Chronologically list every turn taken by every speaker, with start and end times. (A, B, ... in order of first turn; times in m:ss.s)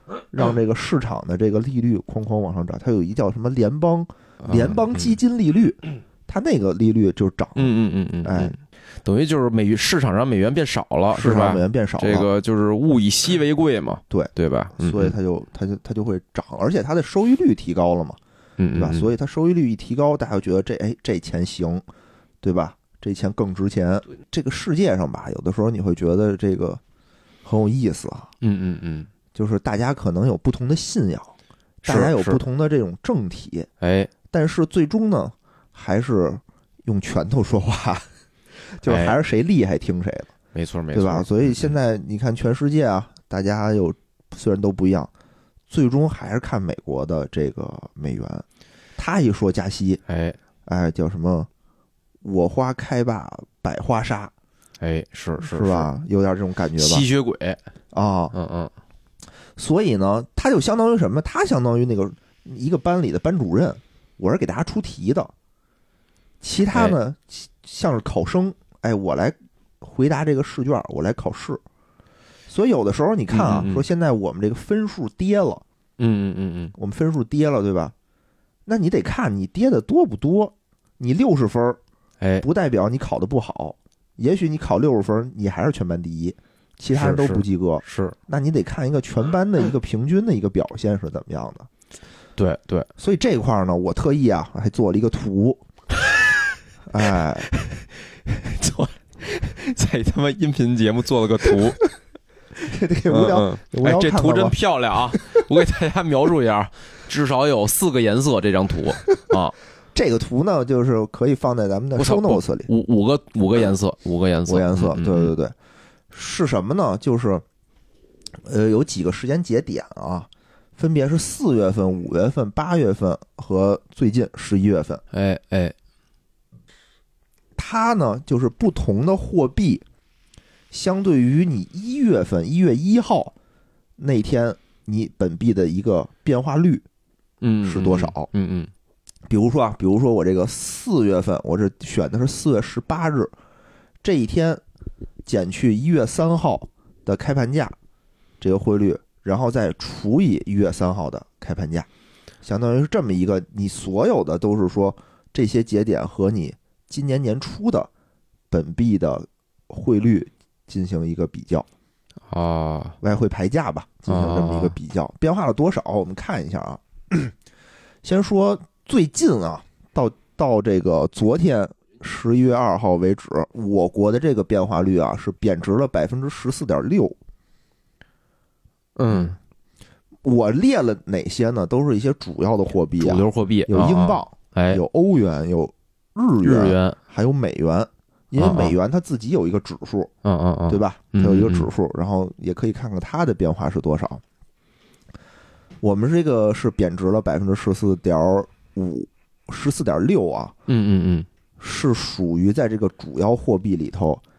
0:00.3-0:07.7 A
0:04.4-0:05.1 B
0:07.6-0:15.2 B
0:08.2-0:08.5 A
0:11.1-0:12.3 A
0:14.1-0:18.2 A
0:18.6-0:19.1 B
0:18.7-0:21.8 A
0:22.4-0:26.8 A
0:27.4-0:28.3 A
0:28.4-0:29.1 B
0:29.3-0:31.3 A
0:31.8-0:32.4 B
0:31.8-0:33.7 A
0:33.8-0:34.1 B
0:34.3-0:38.1 A
0:38.6-0:40.3 A
0:38.9-0:39.2 B
0:40.5-0:41.3 B
0:40.9-0:45.1 A
0:45.7-0:48.4 A
0:49.0-0:50.0 A
0:50.1-0:50.4 B
0:50.6-0:51.5 A
0:52.2-0:54.3 A
0:54.8-0:55.9 B
0:55.4-0:57.1 A
0:56.8-0:57.6 B
0:57.9-0:58.3 A
0:58.3-0:58.7 B
0:59.6-1:05.3 A
1:06.4-1:11.6 A
1:06.7-1:07.0 B
1:12.5-1:15.6 A
1:13.3-1:13.8 B
1:16.0-1:16.7 B
1:16.8-1:17.9 A
1:18.6-1:21.8 A
1:22.4-1:31.7 A
1:26.9-1:28.2 B
1:32.4-1:32.9 B
1:33.0-1:35.6 A
1:36.9-1:37.5 A
1:37.6-1:41.8 B
1:42.6-1:44.6 A
1:43.1-1:49.5 B
1:49.9-1:52.7 A
1:52.0-1:55.3 B
1:54.5-1:55.5 A
1:56.1-1:57.4 A
1:58.4-2:05.0 A
2:05.1-2:05.7 B
2:07.6-2:09.8 A
2:10.7-2:13.3 A
2:14.0-2:16.8 A
2:17.4-2:18.7 B
2:17.6-2:18.3 A
2:19.3-2:23.3 A
2:24.0-2:24.6 A
2:25.2-2:27.7 A
2:28.4-2:31.9 A
2:32.4-2:37.9 A
2:38.5-2:41.7 A
2:42.3-2:43.0 B
2:43.0-2:47.3 A
2:44.1-2:44.8 B
2:48.0-2:57.2 A
2:59.0-2:59.4 B
3:00.2-3:10.1 A
3:03.0-3:04.8 B
3:06.4-3:07.0 B
3:08.4-3:08.8 B
3:10.2-3:11.7 B
3:10.7-3:14.2 A
3:15.8-3:20.5 A
3:20.7-3:21.3 B
3:21.6-3:24.2 A